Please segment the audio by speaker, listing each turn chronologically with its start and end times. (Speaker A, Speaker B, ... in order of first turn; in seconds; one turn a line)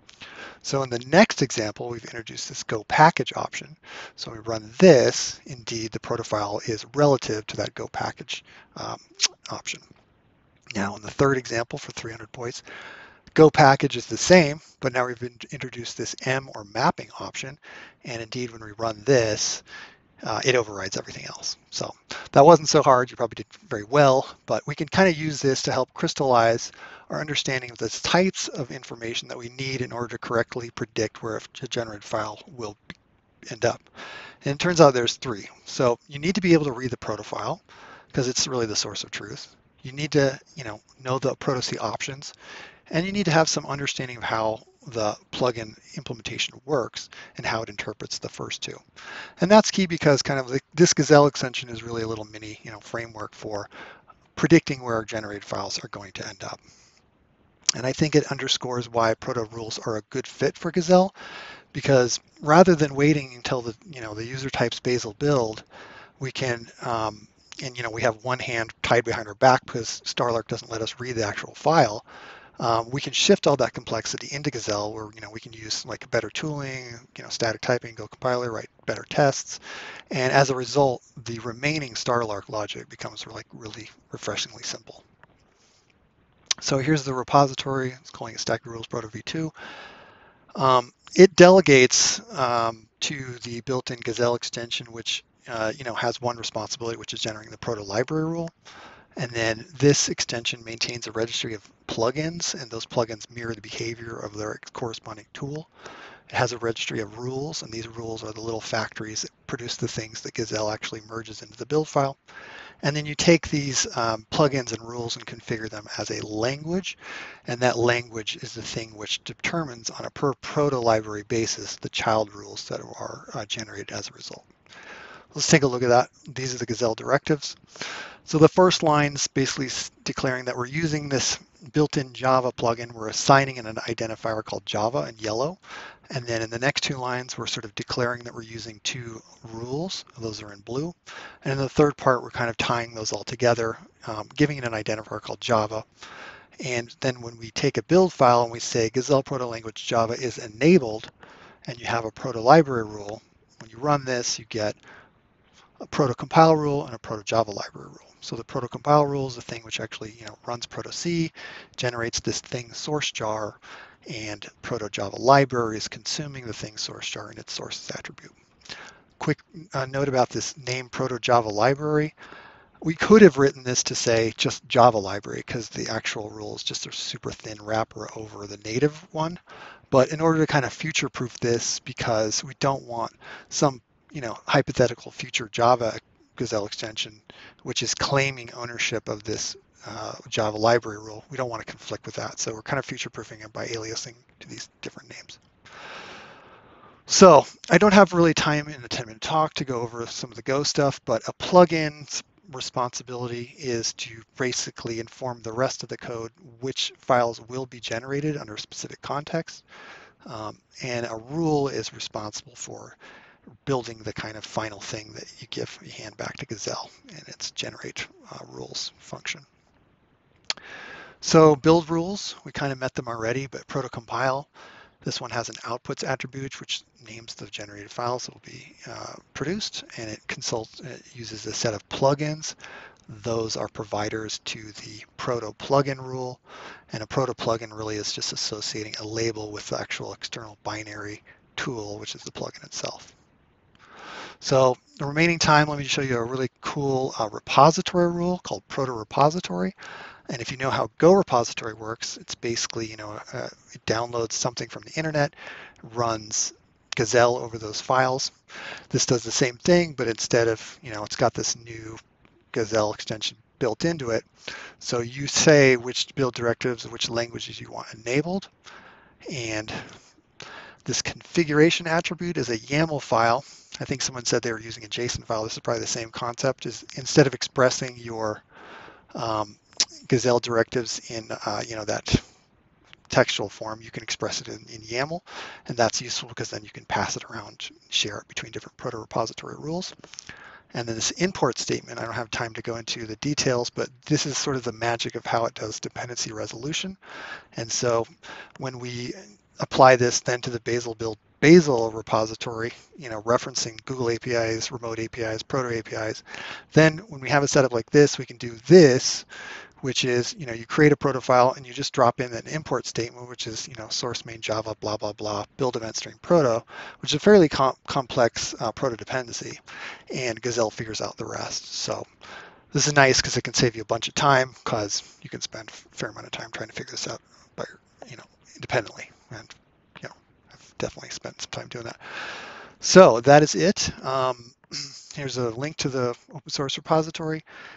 Speaker A: 0.6-9.9
Speaker A: 10.7-12.6
Speaker A: 13.3-19.6
Speaker A: 20.2-32.8
Speaker A: 33.5-33.9
Speaker A: 34.4-37.6
Speaker A: 38.1-42.3
Speaker A: 42.9-48.8
Speaker A: 49.4-53.7
Speaker A: 54.4-56.6
Speaker A: 57.8-61.1
Speaker A: 61.7-65.7
Speaker A: 66.2-72.0
Speaker A: 72.6-79.6
Speaker A: 80.1-85.0
Speaker A: 86.6-89.5
Speaker A: 90.5-98.5
Speaker A: 99.2-105.7
Speaker A: 106.3-112.2
Speaker A: 112.8-124.5
Speaker A: 125.3-135.6
Speaker A: 136.1-145.9
Speaker A: 146.6-151.1
Speaker A: 151.7-154.8
Speaker A: 155.8-168.3
Speaker A: 169.2-172.1
Speaker A: 172.8-179.4
Speaker A: 179.9-195.4
Speaker A: 197.1-209.6
Speaker A: 210.2-213.0
Speaker A: 213.7-219.5
Speaker A: 221.2-224.5
Speaker A: 225.0-232.6
Speaker A: 233.1-243.1
Speaker A: 244.4-249.8
Speaker A: 250.3-258.4
Speaker A: 258.9-262.0
Speaker A: 262.5-264.3
Speaker A: 264.8-268.5
Speaker A: 269.3-270.0
Speaker A: 270.9-278.4
Speaker A: 279.1-282.2
Speaker A: 283.1-289.9
Speaker A: 290.7-297.0
Speaker A: 297.6-309.3
Speaker A: 309.8-322.1
Speaker A: 322.7-337.4